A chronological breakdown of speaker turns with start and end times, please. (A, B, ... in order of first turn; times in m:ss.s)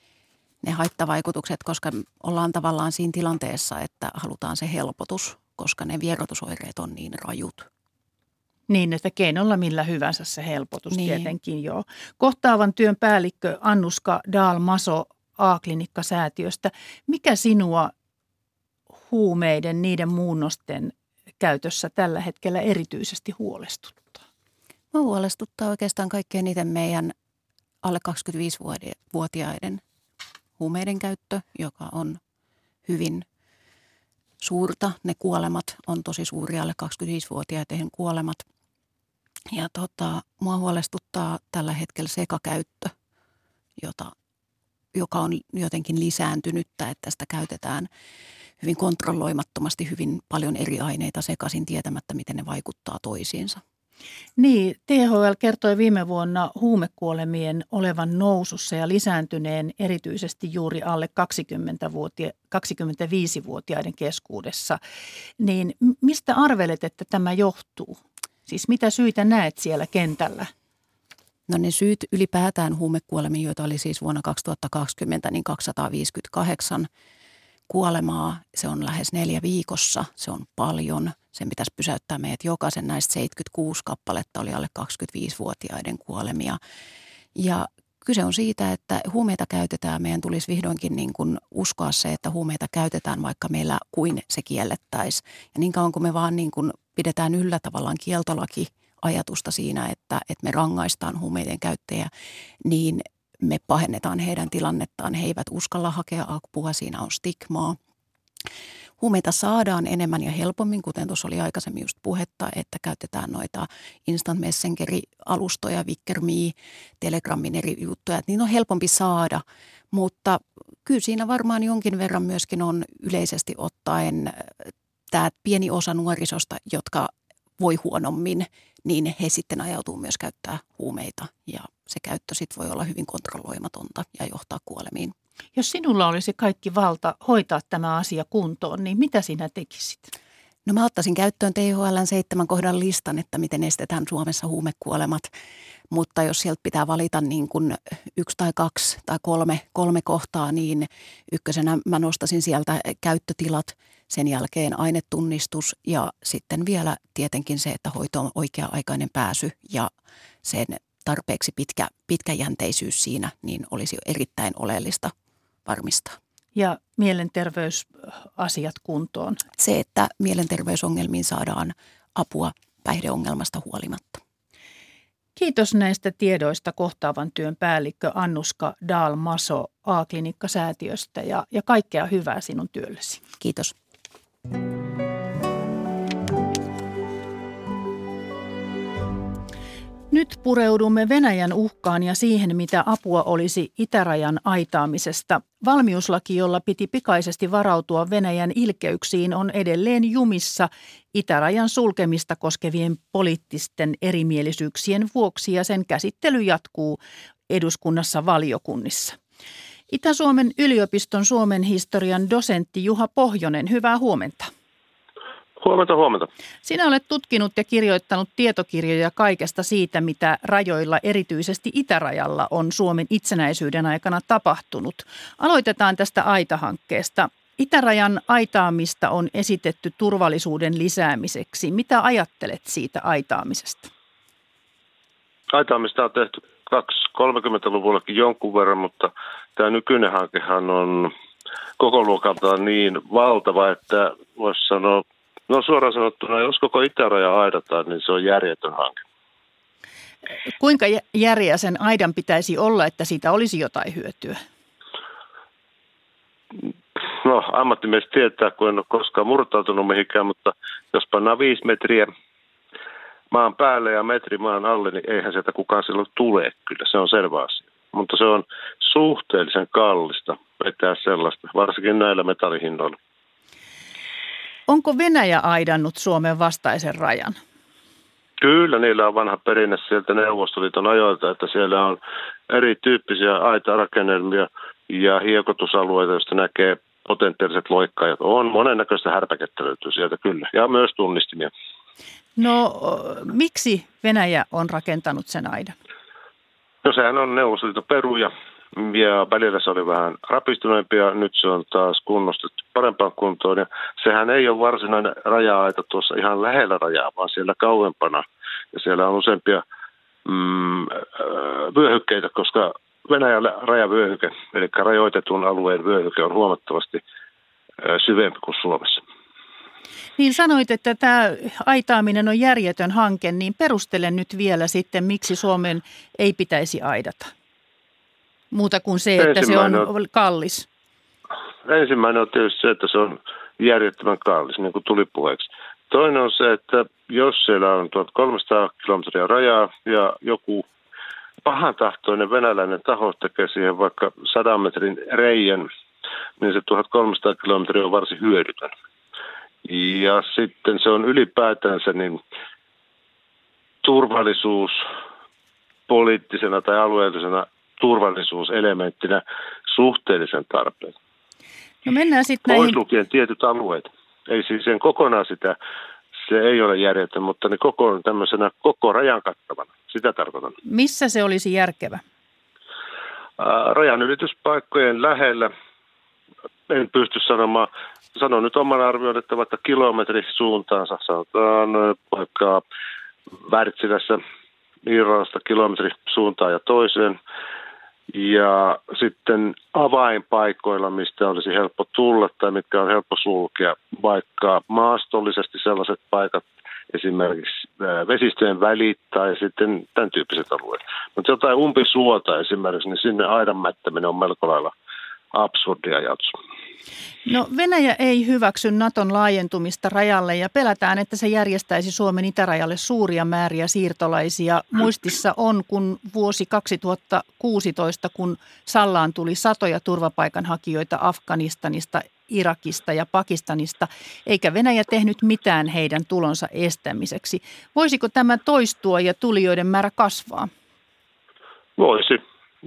0:00.6-0:07.7 A
0:08.7-0:17.9 B
0:10.9-0:11.3 A
0:19.1-0:24.2 B
0:24.9-0:27.1 A
0:27.8-0:29.8 A
0:30.6-0:32.2 A
0:32.9-0:33.2 A
0:34.4-0:38.4 A
0:39.5-0:42.9 A
0:43.8-0:44.1 A
0:44.9-0:47.9 A
0:48.6-0:53.6 A
0:54.4-1:04.8 B
1:05.4-1:10.5 B
1:11.5-1:16.9 A
1:17.7-1:26.6 A
1:27.4-1:42.1 A
1:42.6-1:47.8 A
1:49.0-2:15.1 A
2:15.6-2:20.1 B
2:20.7-2:25.3 A
2:25.9-2:39.9 A
2:40.4-2:45.1 A
2:45.7-2:46.2 A
2:46.6-2:49.4 B
2:49.6-2:54.2 A
2:55.4-3:03.2 B
3:03.4-3:03.8 A
3:10.1-3:27.0 B
3:27.5-3:29.2 B
3:29.9-3:34.5 B
3:35.6-3:36.3 C
3:36.6-3:53.9 B
3:55.5-4:01.1 C
4:01.8-4:09.0 C
4:10.6-4:14.4 B
4:17.2-4:22.1 C
4:23.3-4:33.0 C
4:34.7-4:37.4 B
4:38.4-4:51.5 C
4:52.4-4:55.8 B
4:56.8-5:09.6 C
5:10.2-5:17.0 C
5:17.8-5:19.0 C
5:20.2-5:27.3 B
5:28.5-5:30.7 B
5:29.2-5:29.9 C
5:31.7-5:40.7 C
5:41.4-5:45.7 C
5:46.4-5:48.7 C
5:49.6-5:52.2 C
5:53.8-5:54.8 C
5:55.9-6:01.0 C
6:01.8-6:02.8 B
6:02.5-6:05.6 C
6:06.2-6:10.5 C
6:10.6-6:12.0 B
6:13.4-6:15.5 C
6:16.7-6:22.6 C
6:23.4-6:24.2 C
6:24.8-6:27.2 C
6:28.1-6:44.7 C
6:45.3-6:46.3 C
6:47.3-7:10.5 B
7:11.8-7:12.2 C